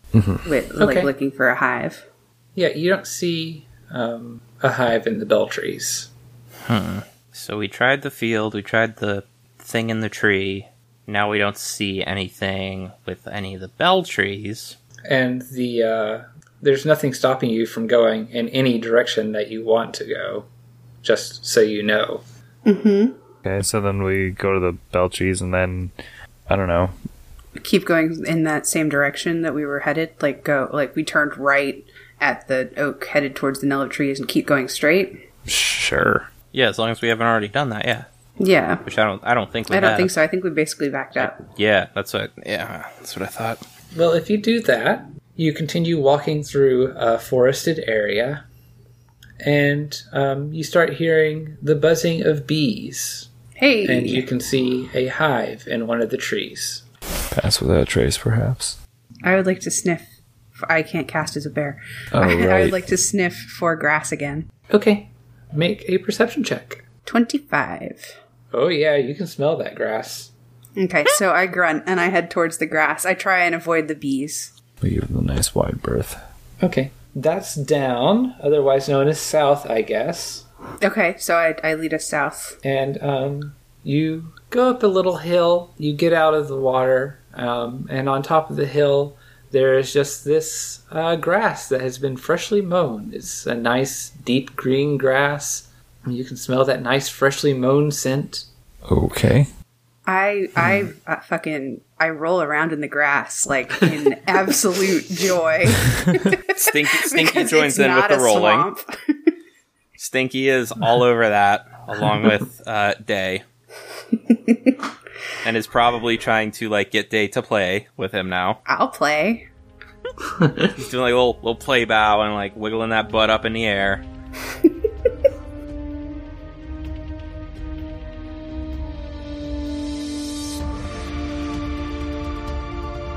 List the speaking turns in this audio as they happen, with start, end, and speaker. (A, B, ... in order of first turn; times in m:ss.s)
0:00.1-0:00.4 A
0:00.4-0:02.0 B
0:00.8-0:01.1 C
0:02.6-0:06.1 C
0:06.6-0:14.8 D
0:15.1-0:20.4 C
0:21.0-0:22.2 C
0:22.6-0:23.2 B
0:23.4-0:25.9 A
0:26.5-0:26.9 A
0:27.6-0:35.2 B
0:35.5-0:36.3 A
0:36.5-0:38.1 D
0:38.4-0:38.8 B
0:38.8-0:40.1 D
0:39.7-0:41.4 B
0:41.2-0:43.6 D
0:43.9-0:48.4 C
0:49.4-0:53.3 C
0:53.6-0:54.3 B
0:53.8-0:56.8 C
0:57.3-0:58.8 A
0:59.2-1:04.5 B
1:02.1-1:02.9 A
1:04.7-1:06.8 C
1:07.0-1:08.2 B
1:08.5-1:10.3 C
1:10.8-1:14.5 B
1:14.8-1:16.2 A
1:16.6-1:20.4 C
1:20.8-1:22.6 B
1:22.6-1:38.4 C
1:38.8-1:39.5 A
1:40.1-1:49.3 B
1:46.5-1:48.7 D
1:50.0-1:53.4 D
1:54.3-1:54.7 B
1:55.4-1:58.6 D
1:58.6-1:59.5 B
2:00.6-2:04.0 D